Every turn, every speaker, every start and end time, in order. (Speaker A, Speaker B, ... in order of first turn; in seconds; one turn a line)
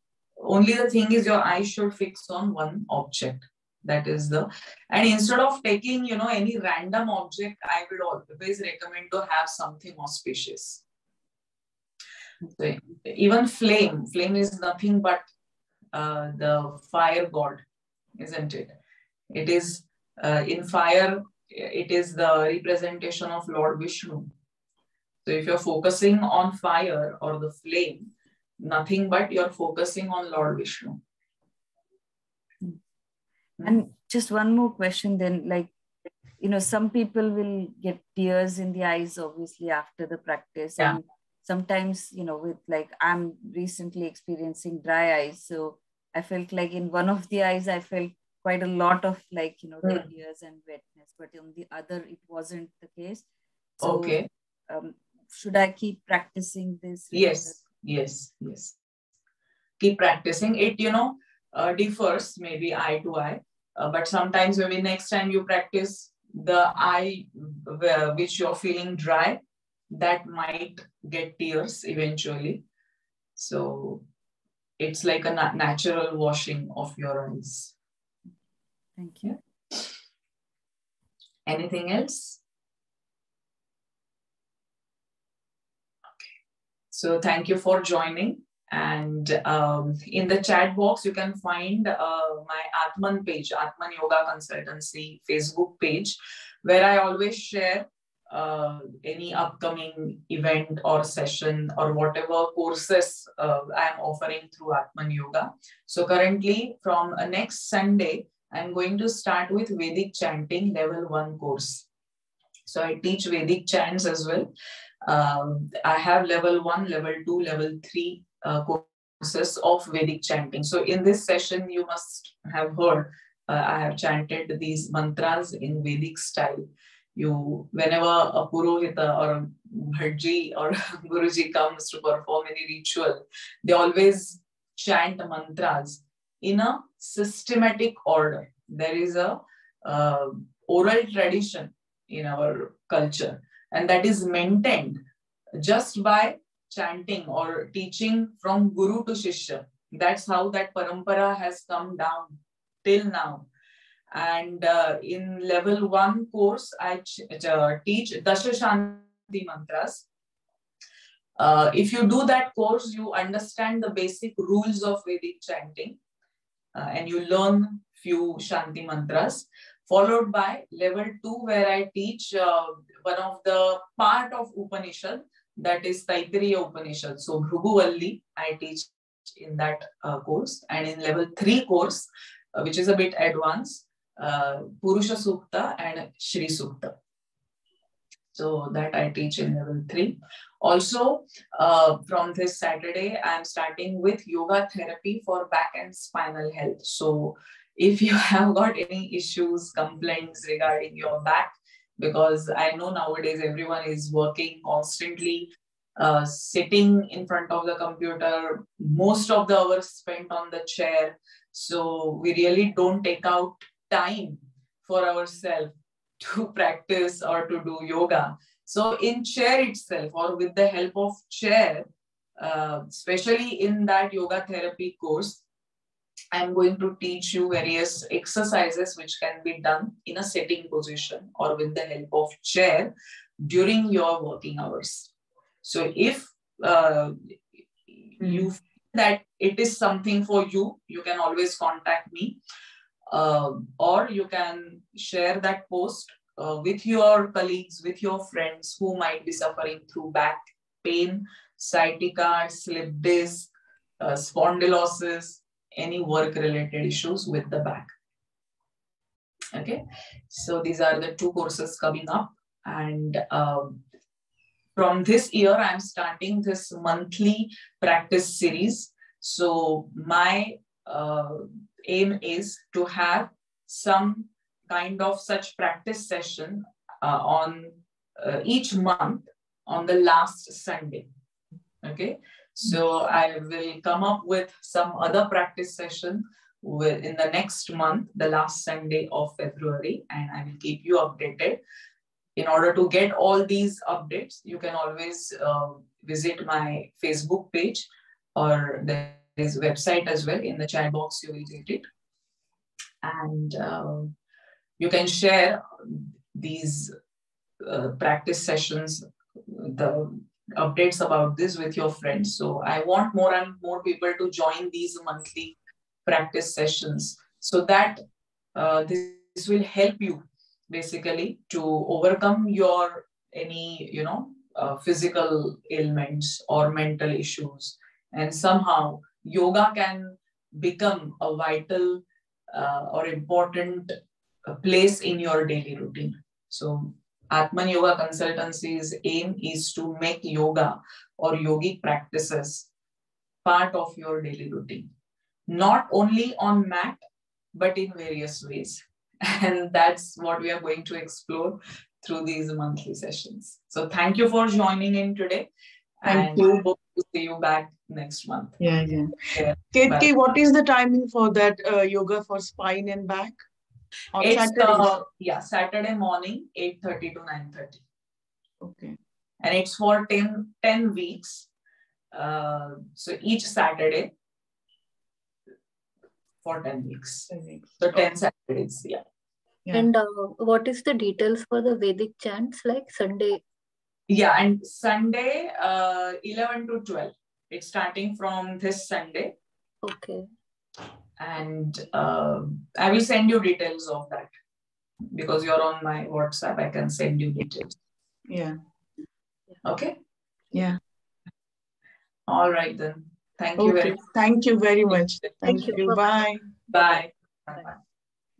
Speaker A: 0.4-10.8
Speaker A: 12.6-15.2
Speaker A: 15.9-17.6
Speaker A: 18.2-18.7
Speaker A: 19.3-24.3
Speaker A: 25.2-31.0
Speaker B: 33.6-35.7
Speaker B: 36.4-53.2
Speaker B: 53.8-57.6
Speaker A: 53.8-54.3
Speaker A: 57.1-58.8
Speaker A: 59.8-69.4
Speaker A: 69.9-72.7
Speaker A: 73.4-74.0
Speaker A: 74.8-77.8
Speaker B: 79.0-79.4
Speaker A: 81.5-82.4
Speaker A: 86.9-111.9
Speaker A: 112.7-114.5
Speaker A: 115.0-145.0
Speaker A: 145.6-153.5
Speaker A: 154.1-160.1
Speaker A: 161.4-166.0
Speaker A: 166.8-186.9
Speaker A: 188.3-221.9
Speaker A: 222.4-225.4
Speaker A: 226.3-235.1
Speaker A: 235.6-237.3
Speaker A: 237.9-242.4
Speaker A: 243.1-257.9
Speaker A: 259.5-263.8
Speaker A: 264.8-281.1
Speaker A: 281.8-291.6
Speaker A: 292.4-301.9
Speaker A: 303.0-304.1
Speaker A: 304.8-306.9
Speaker A: 307.6-318.0
Speaker A: 318.6-342.7
Speaker A: 343.4-344.9
Speaker A: 345.5-347.0
Speaker A: 347.5-355.5
Speaker A: 356.0-358.6
Speaker C: 356.1-356.4
Speaker C: 358.6-359.2
Speaker A: 359.3-360.1
Speaker C: 359.7-363.4
Speaker C: 364.1-365.0
Speaker A: 364.2-367.8
Speaker C: 368.6-369.0
Speaker A: 369.4-371.5
Speaker A: 372.1-374.1
Speaker A: 376.4-379.0
Speaker C: 377.3-378.0
Speaker D: 379.7-383.4
Speaker A: 384.1-389.3
Speaker D: 389.8-390.3
Speaker A: 391.2-394.3
Speaker A: 395.1-397.8
Speaker C: 398.3-398.6
Speaker A: 399.6-400.0
Speaker C: 400.5-400.8
Speaker A: 402.3-404.0
Speaker C: 403.6-406.5
Speaker D: 405.4-406.0
Speaker A: 406.7-407.8